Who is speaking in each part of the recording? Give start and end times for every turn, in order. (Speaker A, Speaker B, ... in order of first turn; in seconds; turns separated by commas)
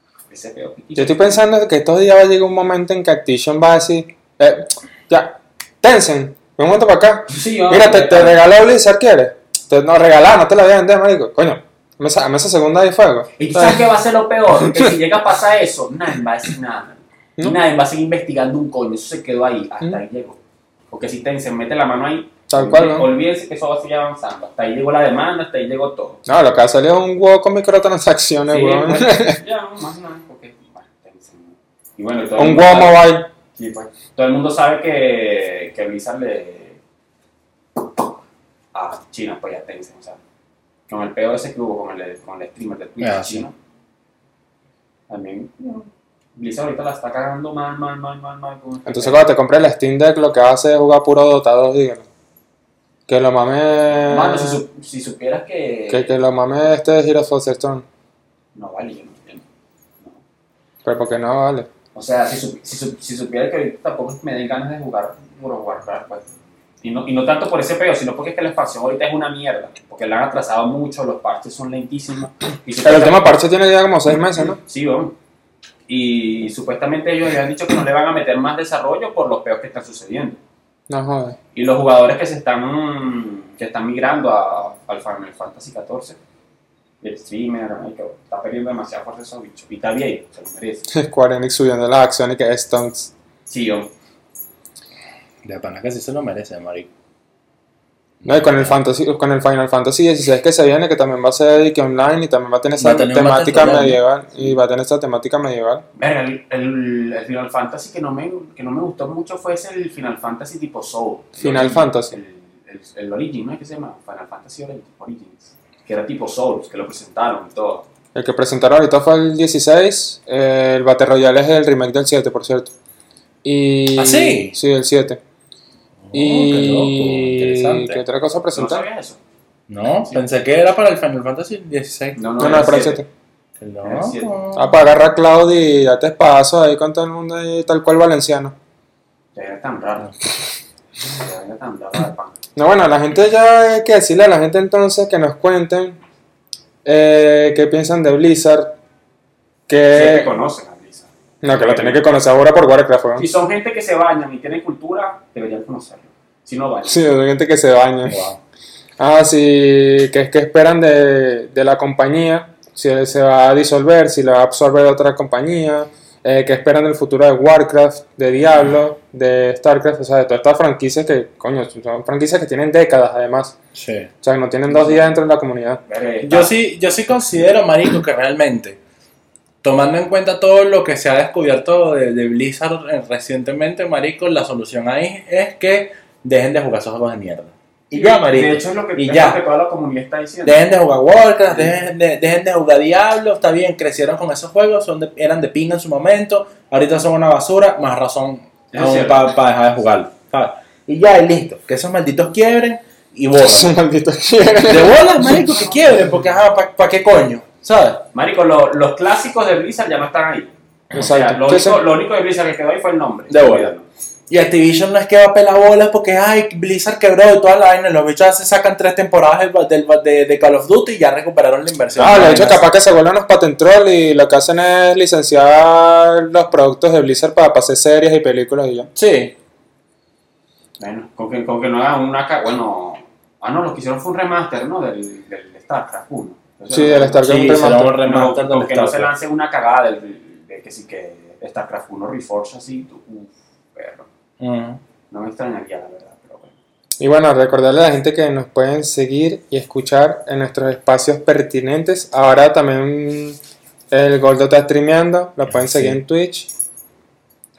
Speaker A: 0.3-1.4, Speaker B: 0.9-13.8, Speaker A: 7.3-8.4, Speaker A: 13.4-26.2, Speaker B: 14.7-14.9, Speaker B: 22.5-23.1, Speaker B: 26.2-29.4, Speaker A: 28.5-36.8, Speaker B: 32.4-33.3, Speaker A: 38.7-40.2, Speaker A: 40.9-43.5, Speaker C: 43.0-43.5, Speaker A: 45.1-49.3, Speaker B: 48.9-52.0, Speaker B: 53.1-54.6, Speaker A: 54.1-56.1, Speaker B: 55.9-57.8, Speaker A: 58.5-59.4, Speaker B: 60.8-61.7, Speaker A: 61.9-66.3, Speaker A: 66.8-73.3, Speaker B: 72.8-74.6, Speaker A: 74.6-75.1, Speaker A: 75.9-80.4, Speaker B: 80.9-81.4, Speaker A: 81.5-86.2, Speaker A: 87.0-90.9, Speaker B: 90.9-93.1, Speaker A: 93.5-93.9, Speaker C: 95.4-96.9, Speaker C: 98.2-98.8, Speaker B: 98.2-105.8, Speaker C: 102.8-104.0, Speaker A: 106.0-117.8, Speaker B: 111.4-112.2, Speaker B: 118.1-122.7, Speaker B: 123.4-125.2, Speaker C: 124.0-124.6, Speaker C: 126.0-128.0, Speaker B: 126.1-128.8, Speaker A: 128.5-129.2, Speaker C: 129.7-132.2, Speaker A: 132.1-133.0, Speaker B: 132.4-133.1, Speaker C: 133.6-134.7, Speaker A: 133.8-134.3, Speaker B: 134.5-138.5, Speaker A: 139.3-140.1, Speaker A: 141.1-142.3, Speaker B: 142.6-146.0, Speaker B: 146.8-148.8, Speaker B: 149.7-150.3, Speaker A: 149.9-152.0, Speaker B: 151.4-153.2, Speaker A: 153.2-157.1, Speaker B: 156.9-158.2, Speaker C: 158.1-158.4, Speaker B: 159.0-173.5, Speaker C: 173.7-174.1, Speaker B: 174.2-175.8, Speaker A: 174.7-175.1, Speaker A: 175.9-176.6, Speaker C: 176.2-178.8, Speaker C: 179.6-189.4, Speaker A: 187.9-190.7, Speaker C: 190.4-203.8, Speaker A: 191.5-191.7, Speaker A: 198.7-199.2, Speaker B: 203.4-205.0, Speaker C: 204.7-208.0, Speaker A: 205.3-206.1, Speaker A: 208.1-213.9, Speaker B: 210.9-211.8, Speaker C: 213.3-213.7, Speaker C: 214.3-222.7, Speaker B: 221.9-228.9, Speaker C: 228.9-229.3, Speaker A: 230.8-237.3, Speaker B: 236.7-237.9, Speaker C: 237.1-239.1, Speaker A: 237.9-244.1, Speaker C: 244.4-244.8, Speaker A: 245.1-246.5, Speaker B: 247.0-253.4, Speaker B: 253.9-256.5, Speaker C: 255.5-256.0